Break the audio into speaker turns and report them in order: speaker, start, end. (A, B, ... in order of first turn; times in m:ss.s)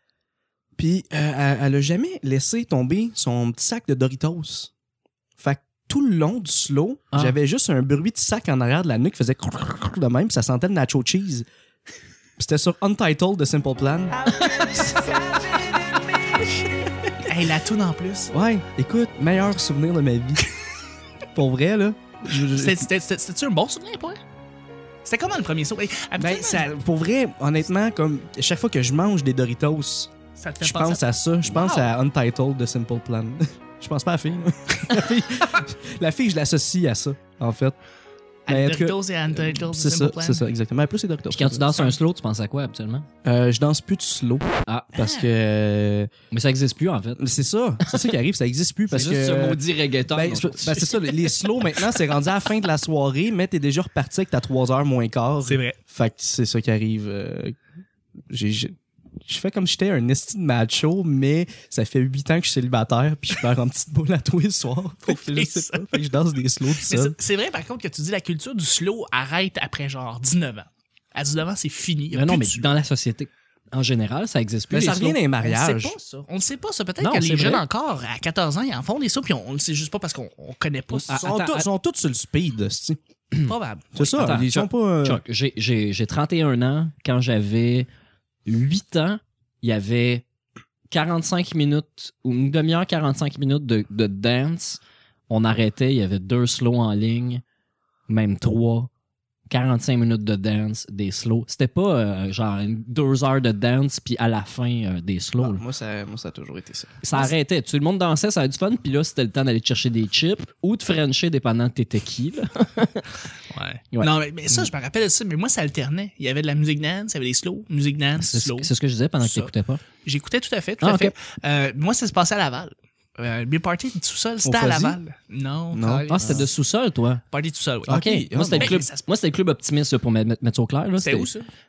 0:00.8-0:04.7 A
0:05.4-0:11.4 A
0:07.1-0:07.4 B
0:12.4-0:14.3 A
0:14.4-0:15.2 C
0:17.2-0:18.3 C
0:18.3-0:20.4 A
0:21.3-0:22.8 A
0:22.3-0:24.2 C
0:25.0-0:26.7 C
0:26.2-0:37.8 A
0:30.4-0:31.0 C
0:38.4-0:40.4 C
0:38.5-0:41.9 A
0:41.3-0:43.1 B
0:43.2-0:46.1 A
0:44.9-0:45.3 C
0:46.3-0:47.2 B
0:47.2-0:57.6 A
0:47.8-0:48.1 B
0:48.9-0:51.3 B
0:55.4-0:55.8 C
0:58.3-1:07.2 A
1:05.1-1:06.1 C
1:06.8-1:12.7 C
1:12.1-1:15.2 B
1:14.7-1:16.0 A
1:15.3-1:21.3 C
1:17.0-1:17.6 B
1:20.9-1:21.7 B
1:21.1-1:23.0 A
1:23.4-1:24.5 C
1:23.9-1:25.2 A
1:24.1-1:27.9 B
1:28.4-1:30.2 B
1:30.9-1:37.4 B
1:38.1-1:38.9 B
1:39.5-1:45.6 B
1:45.4-1:47.3 A
1:47.0-1:53.1 B
1:53.5-1:59.5 C
1:58.2-1:59.8 B
2:00.0-2:06.5 C
2:00.8-2:01.1 B
2:04.4-2:05.0 A
2:05.7-2:06.5 A
2:06.1-2:07.2 B
2:07.3-2:08.0 C
2:07.9-2:08.8 A
2:07.9-2:11.3 B
2:08.5-2:09.1 C
2:11.0-2:11.4 C